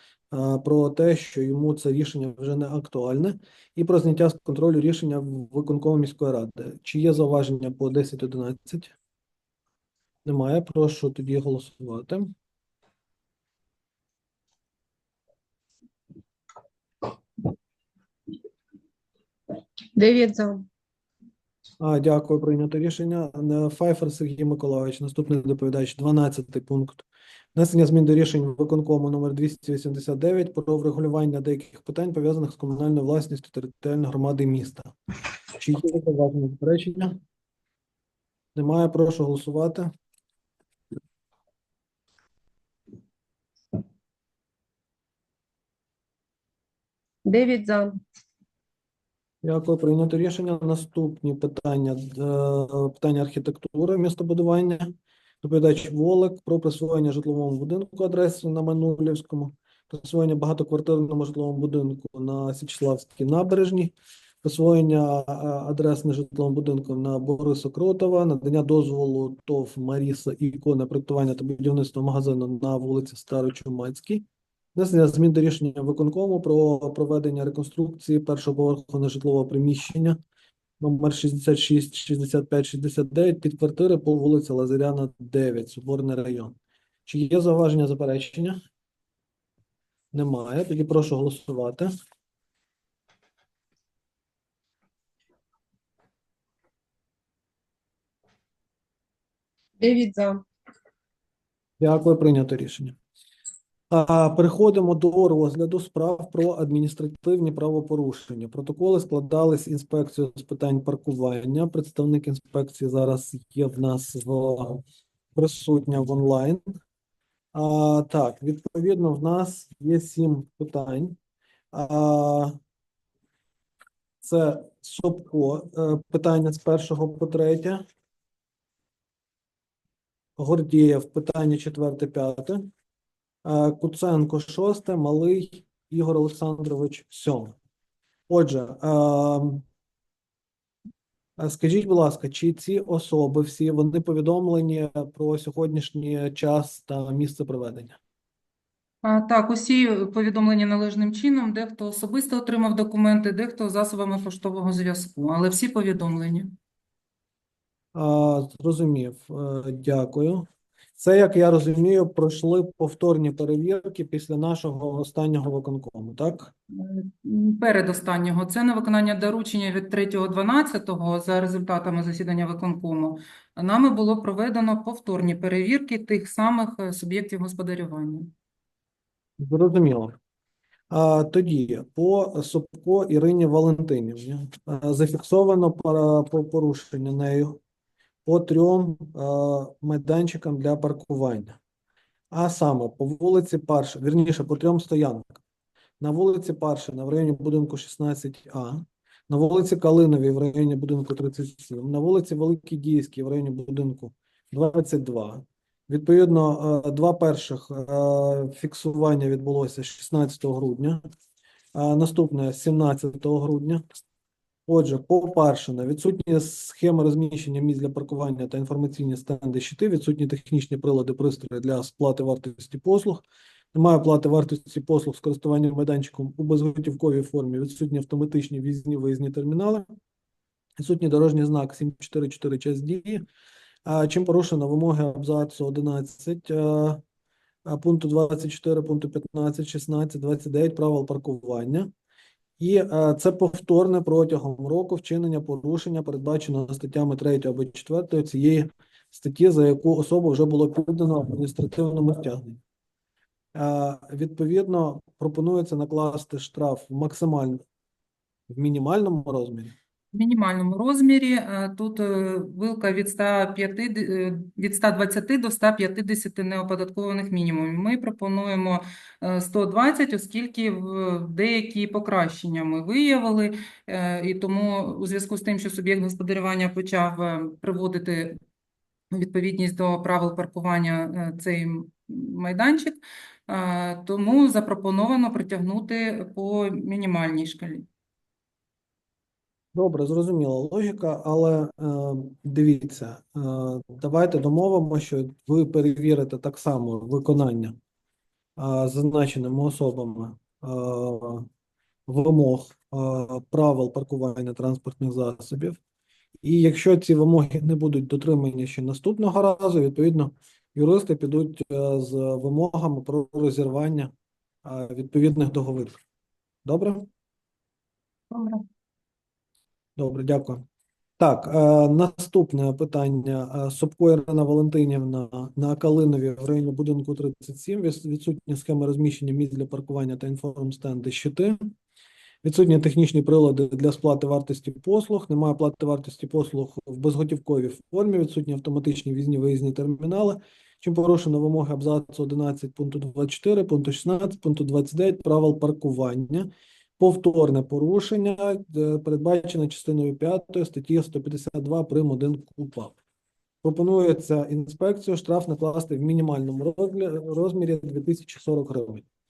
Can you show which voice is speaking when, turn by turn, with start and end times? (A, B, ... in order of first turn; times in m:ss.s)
0:00.3-0:09.0 A
0:10.2-0:12.3 A
0:20.0-0:20.7 B
0:21.8-0:27.0 A
0:27.6-0:34.9 A
0:35.5-0:37.2 A
0:38.6-0:39.9 A
0:47.2-0:48.0 B
0:49.4-0:54.9 A
0:55.4-1:14.2 A
1:14.8-1:20.2 A
1:20.8-1:26.6 A
1:27.1-1:28.6 A
1:30.1-1:31.9 A
1:39.8-1:40.4 B
1:41.8-1:43.0 A
1:43.9-1:54.8 A
1:55.4-1:56.6 A
1:57.5-2:01.2 A
2:01.7-2:02.6 A
2:04.2-2:07.8 A
2:10.4-2:12.7 A
2:13.4-2:17.6 A
2:18.3-2:19.6 A
2:21.4-2:28.0 A
2:29.0-2:36.5 C
2:37.9-2:46.5 A
2:46.8-2:58.3 C
2:59.4-3:00.2 A
3:00.9-3:07.6 A
3:08.2-3:11.6 A
3:12.3-3:15.4 A
3:16.0-3:31.0 A
3:31.8-3:33.8 A
3:34.7-3:49.9 A
3:50.8-3:53.2 A
3:53.9-3:57.0 A
3:57.7-4:01.9 A
4:02.6-4:12.6 A
4:13.6-4:17.6 A
4:18.5-4:19.8 A
4:20.1-4:38.4 C
4:39.1-4:47.8 C
4:49.7-4:57.8 A
4:58.6-5:01.5 A
5:02.1-5:05.8 A
5:06.4-5:14.1 A
5:14.6-5:16.0 A
5:16.6-5:17.1 A
5:18.3-5:18.6 C
5:20.0-5:20.7 A
5:21.2-5:31.6 A
5:32.4-5:53.0 A
5:53.6-5:59.0 A